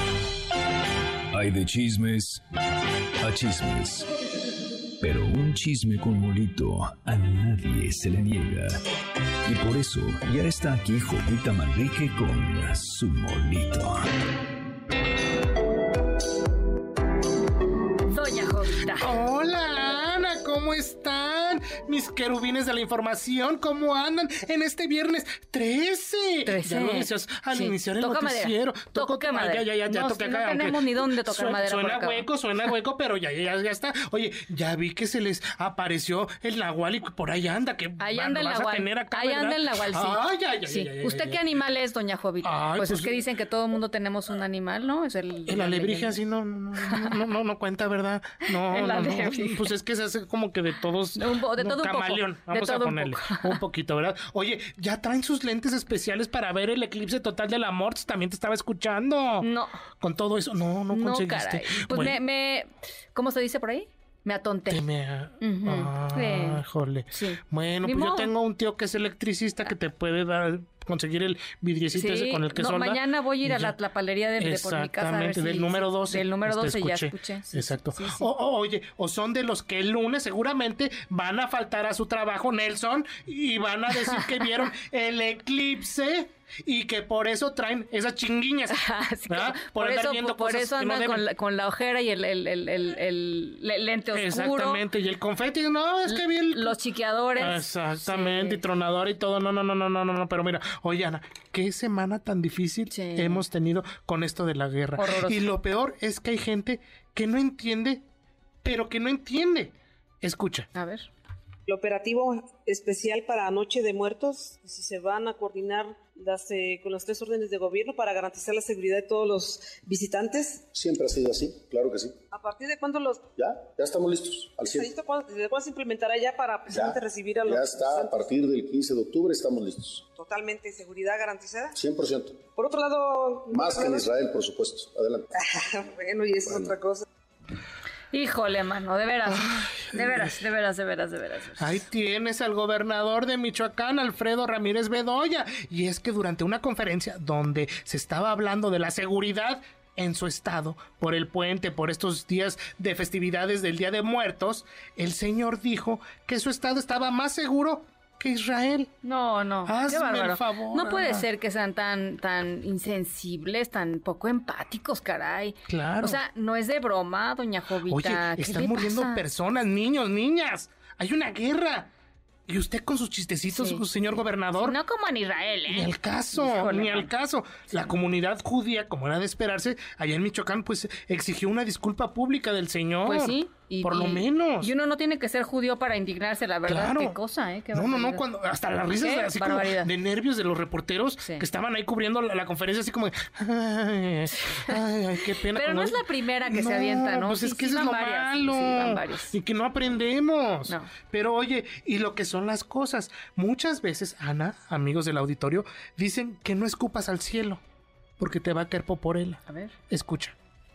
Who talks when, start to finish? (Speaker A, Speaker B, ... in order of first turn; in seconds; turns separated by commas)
Speaker A: 1.3-2.4, Speaker A: 3.2-4.0, Speaker A: 5.0-8.8, Speaker A: 9.5-14.0, Speaker B: 18.1-19.1, Speaker C: 19.0-41.4, Speaker B: 26.5-32.3, Speaker B: 38.0-46.2, Speaker C: 42.4-43.2, Speaker C: 45.5-59.5, Speaker B: 46.8-47.2, Speaker B: 48.7-49.7, Speaker B: 51.2-53.6, Speaker B: 59.4-59.8, Speaker C: 60.0-62.2, Speaker B: 60.9-64.8, Speaker C: 64.7-73.8, Speaker B: 65.4-68.3, Speaker B: 71.9-78.3, Speaker C: 74.4-91.3, Speaker B: 83.9-84.5, Speaker B: 88.7-94.8, Speaker C: 94.1-96.8, Speaker B: 96.1-98.6, Speaker C: 97.4-108.0, Speaker B: 102.9-103.4, Speaker B: 105.0-105.5, Speaker C: 108.6-110.7, Speaker B: 110.8-111.1, Speaker D: 111.7-120.7, Speaker E: 120.7-122.2, Speaker D: 122.3-123.3, Speaker E: 123.4-125.0, Speaker D: 124.6-128.3, Speaker E: 126.7-130.0, Speaker D: 130.2-131.8, Speaker E: 131.8-132.4, Speaker D: 132.6-134.1, Speaker E: 133.5-135.3, Speaker D: 135.4-137.1, Speaker E: 136.4-136.8, Speaker B: 138.1-141.8, Speaker C: 141.6-158.9, Speaker B: 159.0-169.2, Speaker C: 159.7-161.3, Speaker C: 165.7-166.2, Speaker C: 167.9-171.9, Speaker C: 172.5-174.8, Speaker B: 173.5-173.8, Speaker B: 174.6-177.1, Speaker C: 175.7-184.7, Speaker B: 183.1-188.2, Speaker C: 186.7-187.2, Speaker C: 187.7-207.6, Speaker B: 188.9-189.9, Speaker B: 191.2-191.4, Speaker B: 194.4-194.8, Speaker B: 195.5-199.3, Speaker C: 208.2-210.3, Speaker B: 209.5-209.7